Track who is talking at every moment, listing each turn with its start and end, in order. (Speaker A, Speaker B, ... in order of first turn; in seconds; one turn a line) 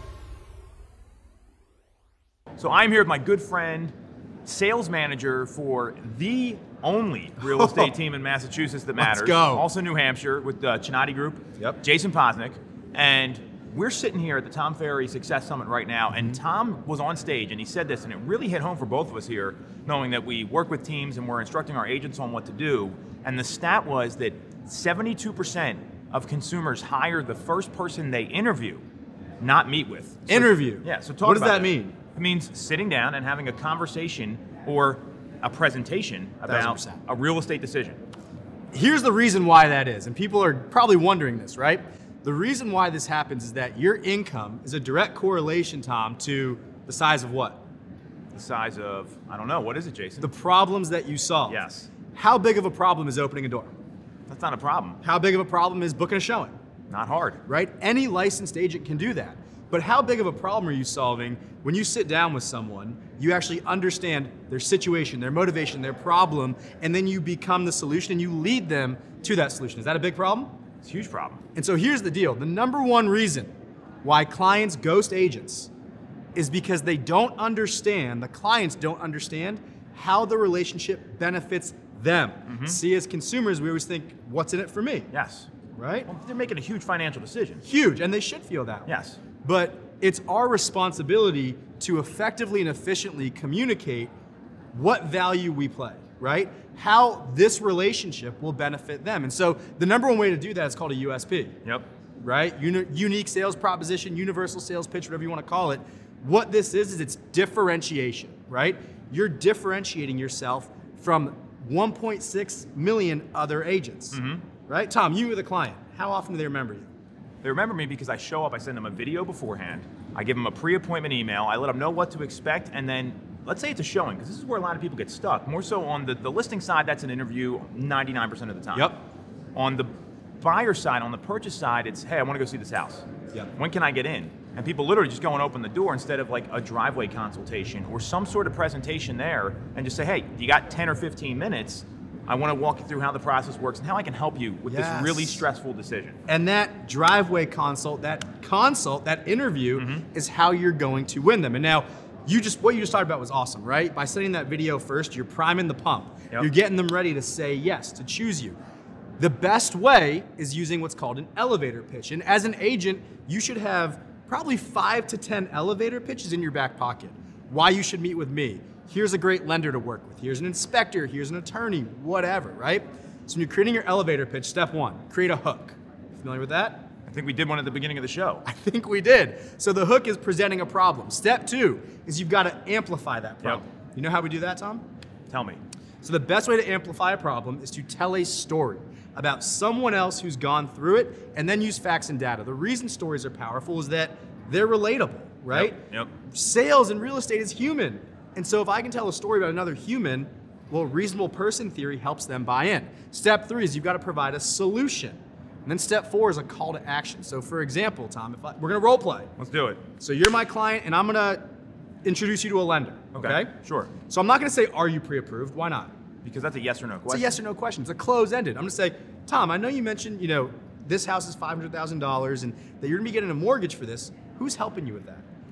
Speaker A: 2.6-3.9
Speaker A: 4.4-28.8
Speaker B: 7.4-7.9
Speaker B: 9.0-9.7
Speaker A: 29.4-38.0
Speaker B: 30.3-31.9
Speaker B: 36.5-37.0
Speaker B: 38.7-47.6
Speaker A: 48.3-50.3
Speaker B: 50.2-51.6
Speaker A: 51.5-51.9
Speaker B: 52.1-53.7
Speaker A: 54.3-55.0
Speaker B: 55.0-56.5
Speaker A: 56.9-57.4
Speaker B: 57.5-70.5
Speaker A: 70.8-71.4
Speaker B: 71.5-73.5
Speaker B: 74.0-75.7
Speaker B: 76.3-85.1
Speaker A: 82.5-82.8
Speaker A: 85.1-85.5
Speaker B: 85.8-86.1
Speaker A: 86.1-87.6
Speaker B: 87.6-88.9
Speaker A: 88.8-89.2
Speaker B: 89.4-94.1
Speaker B: 94.7-101.5
Speaker B: 102.2-116.9
Speaker A: 114.1-114.4
Speaker A: 117.4-128.9
Speaker A: 129.5-129.9
Speaker A: 130.4-146.2
Speaker B: 144.7-145.4
Speaker B: 146.3-158.6
Speaker A: 149.7-150.0
Speaker B: 159.2-176.9
Speaker A: 177.1-178.4
Speaker B: 178.4-184.8
Speaker A: 185.3-185.6
Speaker B: 186.0-209.3
Speaker A: 195.5-196.1
Speaker A: 209.4-209.8
Speaker B: 210.0-211.4
Speaker B: 212.0-213.5
Speaker A: 213.1-213.9
Speaker B: 214.1-215.9
Speaker A: 216.2-217.3
Speaker B: 217.1-225.2